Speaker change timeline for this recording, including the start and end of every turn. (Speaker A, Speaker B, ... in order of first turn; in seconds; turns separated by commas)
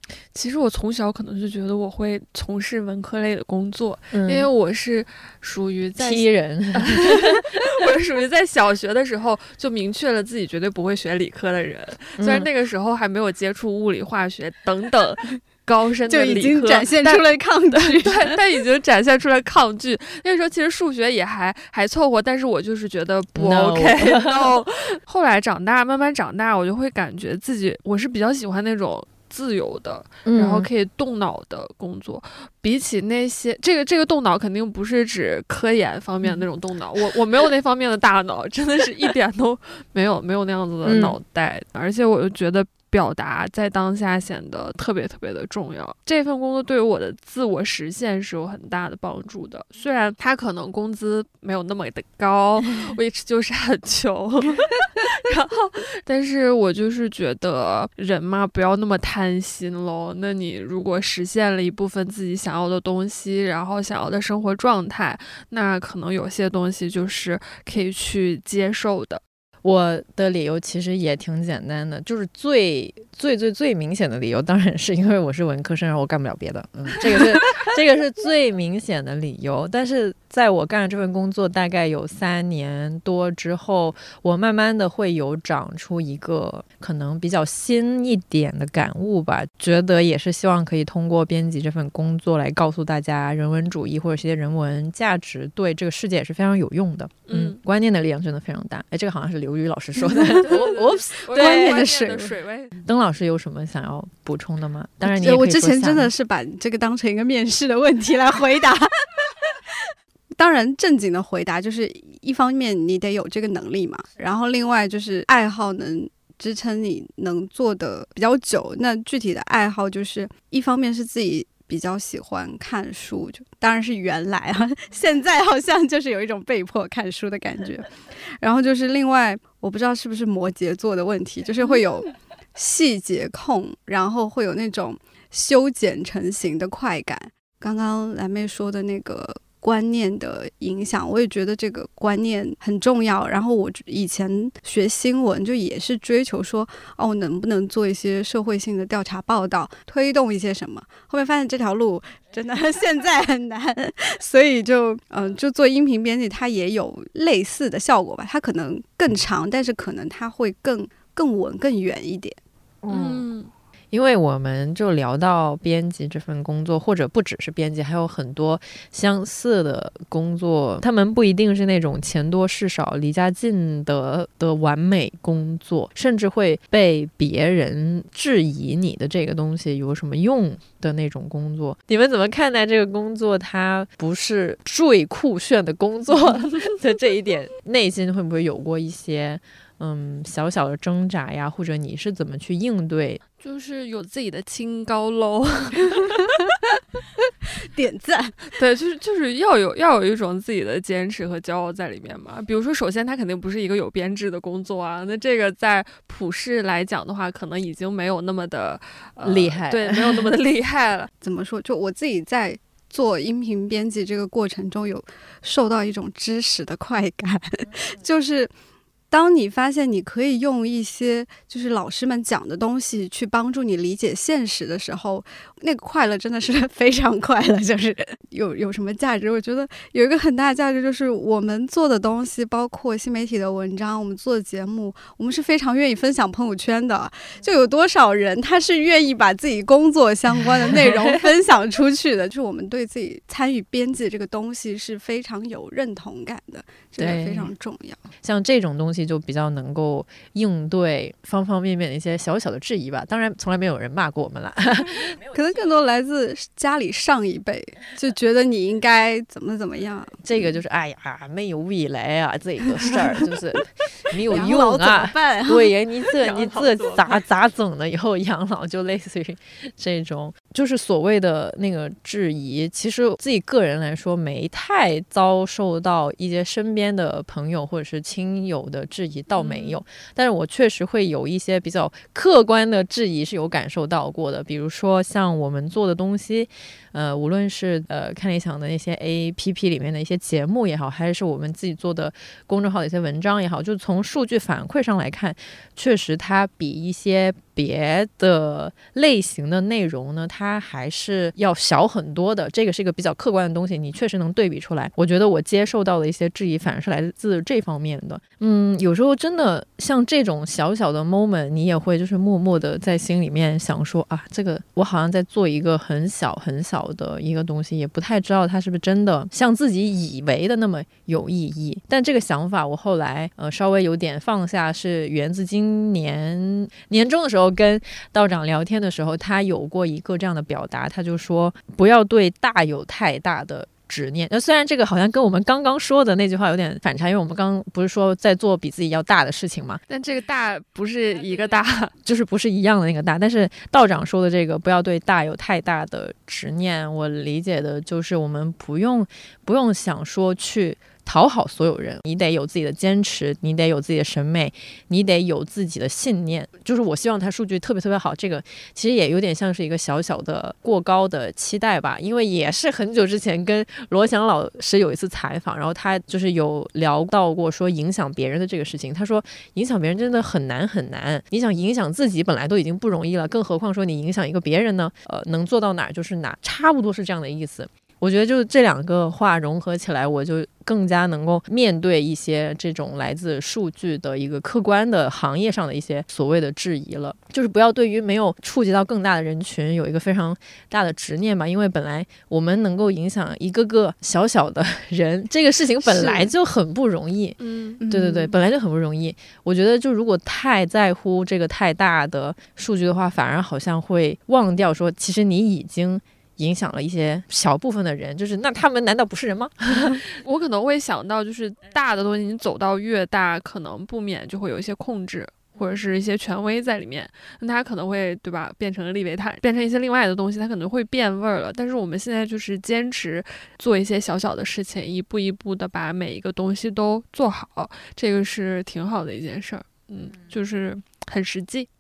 Speaker A: 0.3-69.2, Speaker B: 4.1-4.5, Speaker B: 6.0-7.5, Speaker B: 12.2-12.5, Speaker C: 16.1-18.4, Speaker B: 23.4-24.6, Speaker B: 30.2-30.7, Speaker B: 40.8-41.2, Speaker B: 69.6-101.9, Speaker A: 97.3-97.6, Speaker C: 100.1-100.5, Speaker A: 100.4-102.8, Speaker C: 101.3-102.3, Speaker B: 102.8-106.1, Speaker C: 105.0-109.3, Speaker C: 110.4-127.9, Speaker C: 128.4-162.4, Speaker B: 162.8-163.3, Speaker A: 162.9-163.5, Speaker B: 163.9-193.2, Speaker A: 193.4-196.3, Speaker C: 197.7-198.4, Speaker A: 198.6-211.1, Speaker B: 209.2-210.3, Speaker C: 211.2-218.5, Speaker C: 219.1-248.0, Speaker B: 240.7-241.0, Speaker B: 247.0-247.5, Speaker B: 248.2-255.2, Speaker C: 255.3-260.5, Speaker B: 260.2-339.8, Speaker C: 264.3-266.9, Speaker A: 279.4-279.8, Speaker A: 339.9-341.9, Speaker B: 342.1-397.4, Speaker C: 395.9-396.3, Speaker A: 397.4-397.8, Speaker C: 397.8-398.3, Speaker B: 397.9-410.0, Speaker A: 409.8-431.7